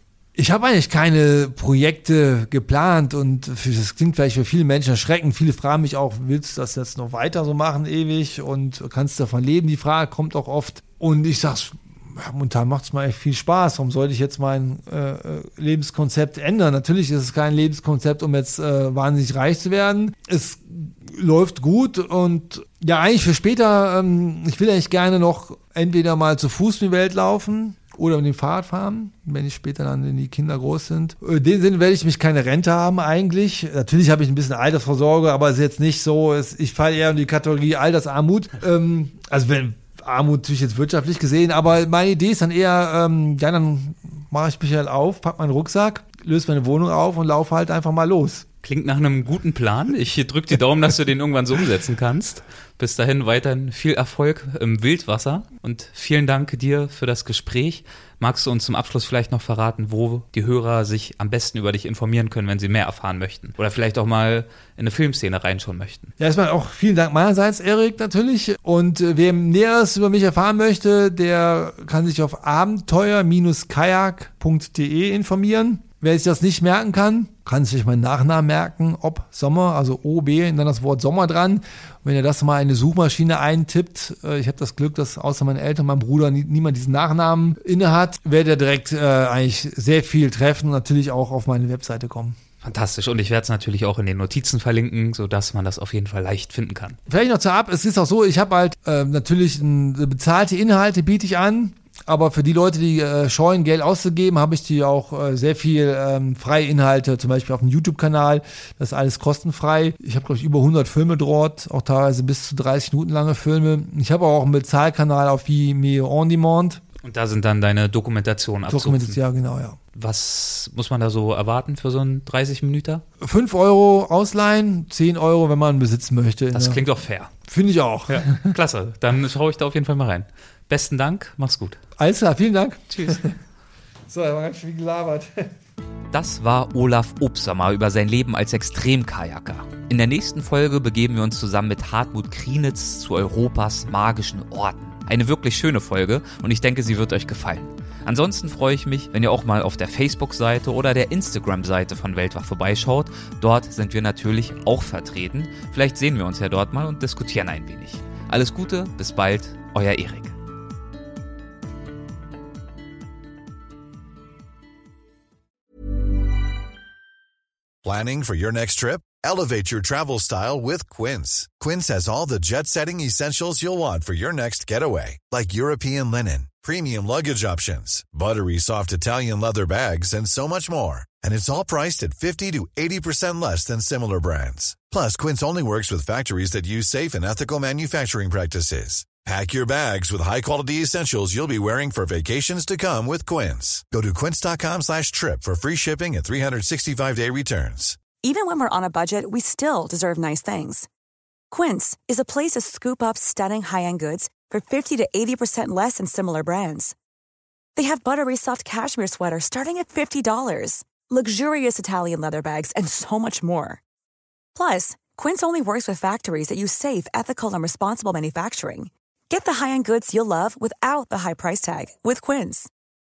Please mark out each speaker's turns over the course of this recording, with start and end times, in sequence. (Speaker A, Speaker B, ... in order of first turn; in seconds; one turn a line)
Speaker A: 0.3-48.5
Speaker B: 48.6-66.1
Speaker A: 66.2-92.4
Speaker B: 92.6-97.0
Speaker A: 97.1-116.8
Speaker B: 117.0-119.2
Speaker A: 118.7-119.8
Speaker B: 119.9-123.0
Speaker A: 123.2-126.8
Speaker B: 126.5-127.3
Speaker A: 127.5-128.5
Speaker B: 128.1-131.8
Speaker A: 132.0-133.3
Speaker B: 132.9-133.3
Speaker A: 134.1-135.5
Speaker B: 136.1-160.3
Speaker C: 167.8-198.0
Speaker D: 198.2-200.9
Speaker D: 201.5-206.9
Speaker D: 207.8-213.8
Speaker D: 214.6-222.7